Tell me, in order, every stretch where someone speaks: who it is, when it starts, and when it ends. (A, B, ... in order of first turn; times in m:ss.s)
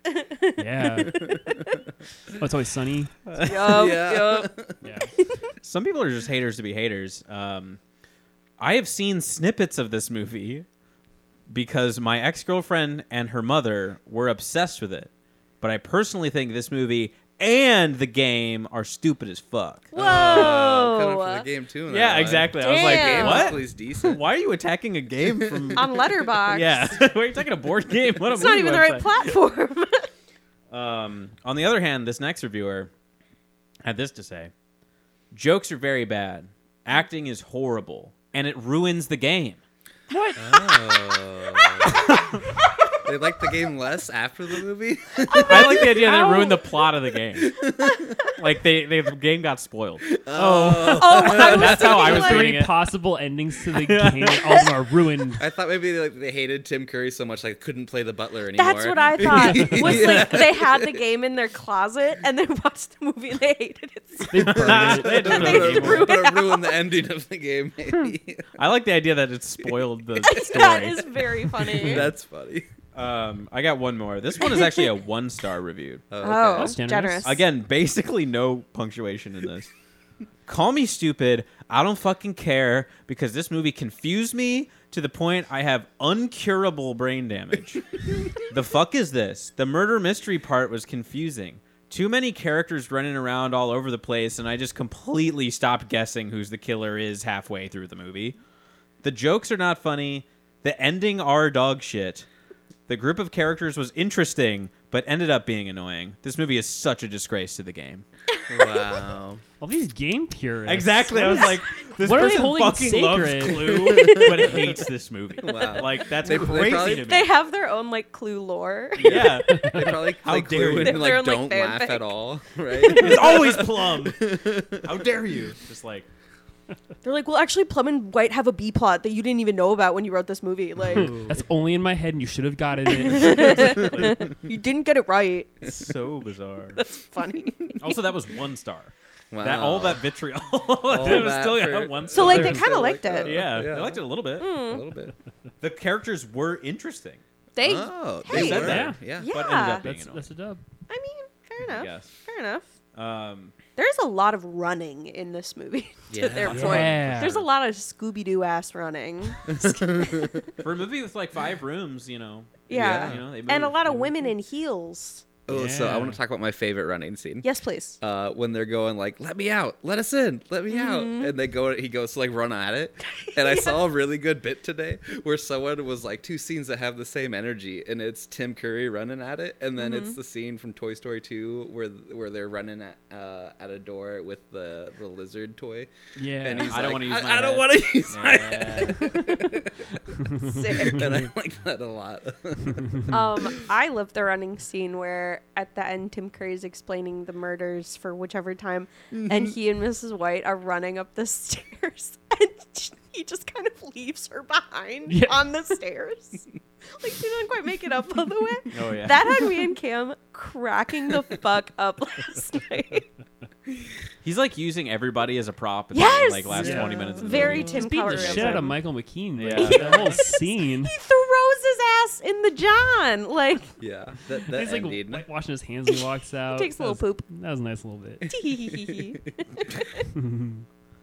0:00.1-0:01.7 A
0:00.6-0:01.3 B
0:02.3-0:03.2 B
0:03.3-0:03.8 C
0:03.4-0:04.5 A
0:03.5-0:04.8 D
0:04.8-0:05.1 B
0:05.6-0:07.8 C
0:08.6-0:10.7 C
0:11.5-0:15.1 C
0:15.6-0:20.6 C
0:19.9-0:21.4 A
0:20.0-0:24.2 D
0:21.9-0:29.4 C
0:22.6-0:23.6 A
0:25.2-0:25.8 D
0:25.8-0:27.0 A
0:28.3-0:30.1 A
0:30.7-0:32.9 C
0:33.8-0:34.5 C
0:35.3-0:39.6 C
0:40.1-0:40.8 B
0:40.4-0:42.2 D
0:42.1-0:42.4 C
0:43.0-0:46.2 D
0:45.4-0:47.6 C
0:46.1-0:46.5 A
0:47.4-0:48.2 D
0:48.3-0:52.7 C
0:50.2-0:52.2 D
0:50.9-0:52.5 A
0:52.0-0:55.4 B
0:53.7-0:54.6 C
0:55.4-1:01.0 D
0:58.5-1:04.6 A
0:59.8-1:00.3 C
1:04.3-1:05.8 B
1:04.4-1:06.2 C
1:04.6-1:08.6 D
1:05.2-1:06.8 A
1:08.6-1:11.0 C
1:10.2-1:12.1 A
1:11.8-1:12.7 D
1:13.0-1:16.0 C
1:16.1-1:16.8 D
1:16.2-1:17.4 A
1:16.6-1:17.4 B
1:17.2-1:19.7 C
1:20.5-1:38.4 C
1:39.0-1:42.3 C
1:42.9-1:48.0 C
1:48.5-1:49.4 D
1:49.6-1:54.0 B
1:50.7-1:57.3 C
1:53.8-1:54.7 D
1:55.4-1:57.1 D
1:56.6-1:59.3 A
1:59.0-2:01.2 C
1:59.0-2:05.0 D
1:59.5-1:59.9 B
2:00.8-2:02.2 A
2:02.7-2:03.5 A
2:02.8-2:06.1 C
2:07.0-2:11.2 A
2:10.9-2:14.0 B
2:10.9-2:11.4 D
2:12.9-2:15.6 A
2:13.6-2:14.2 C
2:15.6-2:16.8 C
2:17.0-2:17.8 A
2:17.8-2:22.7 C
2:19.3-2:20.0 D
2:20.9-2:24.0 D
2:22.1-2:23.4 A
2:23.2-2:24.5 C
2:24.4-2:24.8 A
2:24.6-2:25.1 D
2:25.6-2:27.2 C
2:27.6-2:29.8 A
2:27.6-2:29.3 D
2:28.3-2:30.3 C
2:28.6-2:29.0 B
2:29.8-2:30.6 B
2:30.9-2:32.7 A
2:31.6-2:32.1 C
2:33.0-2:33.5 C
2:33.8-2:40.5 A
2:36.1-2:37.4 D
2:36.5-2:37.2 C
2:36.5-2:37.4 B
2:39.5-2:40.5 D
2:40.6-2:44.1 C
2:42.7-2:45.3 A
2:42.7-2:43.2 D
2:45.5-2:47.5 D
2:45.5-2:46.2 B
2:47.4-2:48.0 A
2:48.0-3:09.9 D
2:50.7-2:51.3 A
2:53.1-2:53.8 A
2:59.8-3:00.2 A
3:06.2-3:06.7 B
3:06.6-3:09.2 C
3:09.0-3:09.4 A
3:10.4-3:11.1 A
3:10.4-3:13.5 D
3:13.1-3:33.1 A
3:19.1-3:19.5 D
3:25.1-3:25.4 B
3:28.7-3:29.2 C
3:34.2-3:38.6 C
3:35.9-3:38.7 A
3:36.6-3:40.9 B
3:36.6-3:37.8 D
3:39.4-3:40.2 C
3:39.6-3:43.7 A
3:43.8-3:45.3 D
3:44.5-3:48.3 B
3:46.5-3:47.2 A
3:48.3-3:50.1 A
3:48.8-3:49.2 D
3:50.1-3:50.7 B